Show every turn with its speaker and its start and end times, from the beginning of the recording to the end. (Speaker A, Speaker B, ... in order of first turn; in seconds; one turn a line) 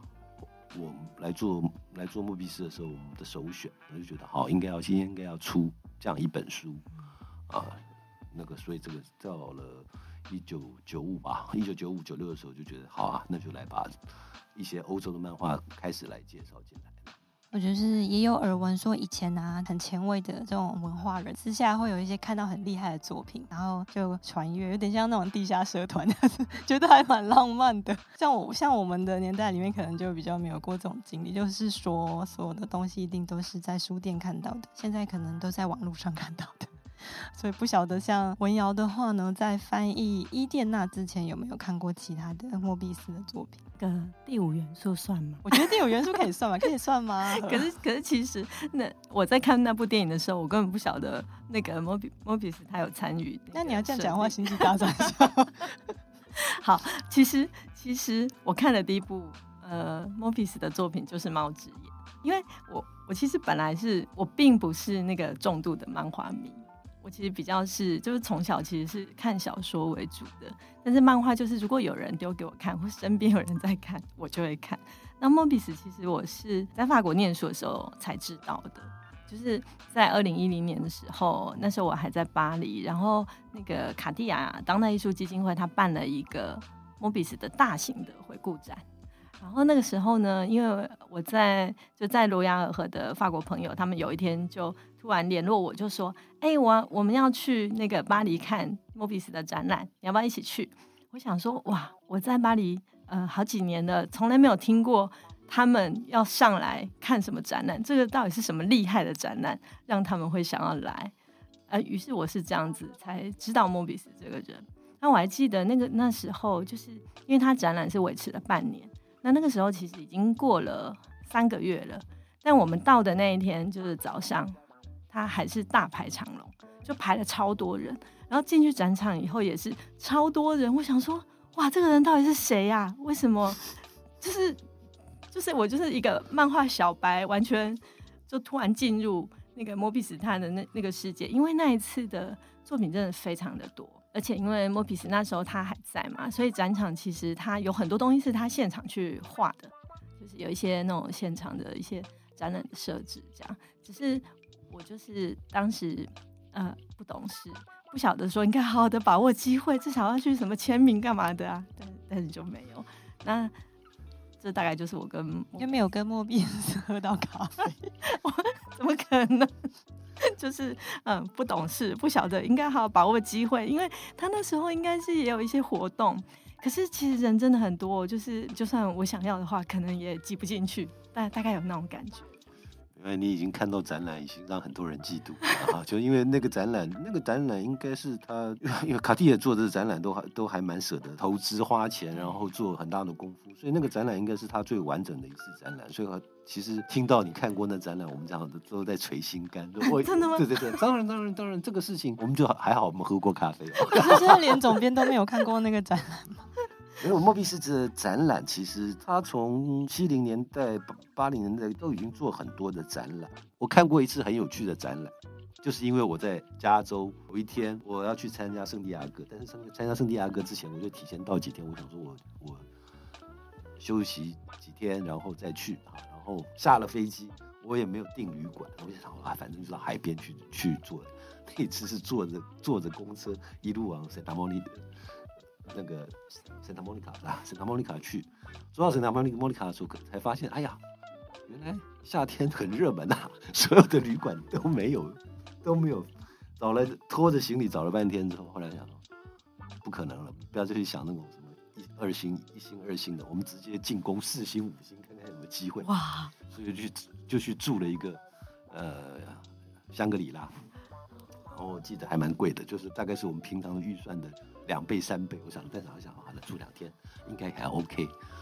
Speaker A: 0.7-6.8
Speaker A: 7.5-17.1
Speaker B: 17.5-43.6
Speaker C: 43.8-45.8
Speaker B: 45.4-47.7
Speaker C: 47.3-55.3
Speaker B: 53.5-55.7
Speaker C: 56.4-88.8
Speaker C: 89.4-111.1
Speaker C: 111.7-124.6
Speaker C: 125.1-134.6
Speaker C: 135.3-163.5
Speaker C: 164.4-165.7
Speaker B: 165.6-167.9
Speaker C: 168.0-169.7
Speaker C: 170.2-182.4
Speaker A: 182.9-204.3
Speaker C: 199.8-200.8
Speaker B: 203.9-206.5
Speaker A: 207.0-222.7
Speaker A: 223.8-234.9
Speaker A: 235.6-240.8
Speaker A: 241.4-249.0
Speaker A: 249.8-260.6
Speaker C: 255.8-256.3
Speaker A: 261.5-268.1